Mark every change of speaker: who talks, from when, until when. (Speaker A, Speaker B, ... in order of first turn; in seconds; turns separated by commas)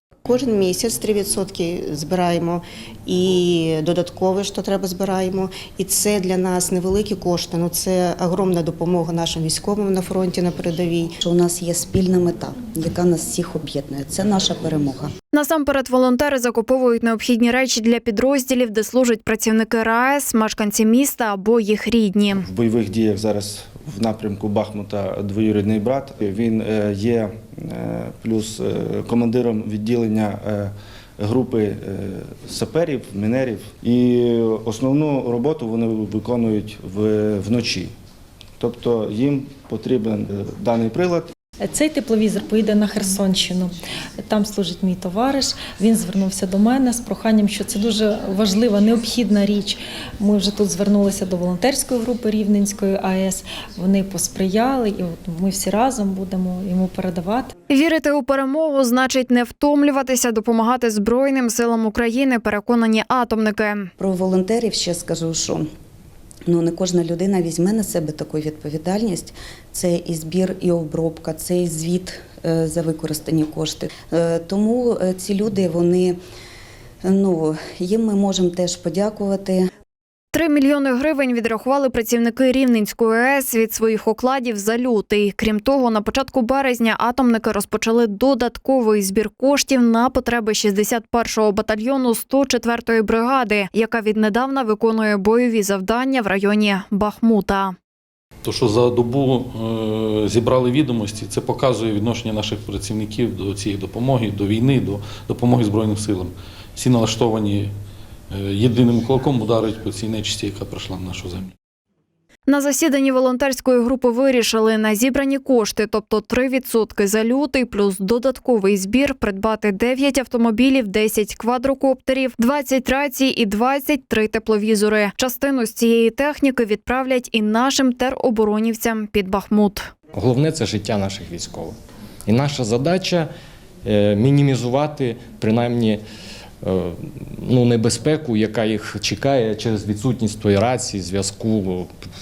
Speaker A: 0.2-11.1, Speaker B: 11.2-15.1, Speaker C: 15.3-22.4, Speaker D: 22.3-37.9, Speaker D: 38.6-41.3, Speaker E: 41.6-57.5, Speaker C: 57.7-63.9, Speaker B: 64.0-65.7, Speaker B: 66.5-76.2, Speaker B: 77.0-79.7, Speaker C: 80.3-97.8, Speaker F: 98.4-107.7, Speaker F: 108.3-111.5, Speaker C: 112.5-129.9, Speaker G: 130.1-131.8, Speaker G: 132.3-133.3, Speaker G: 133.8-136.0, Speaker G: 136.6-141.9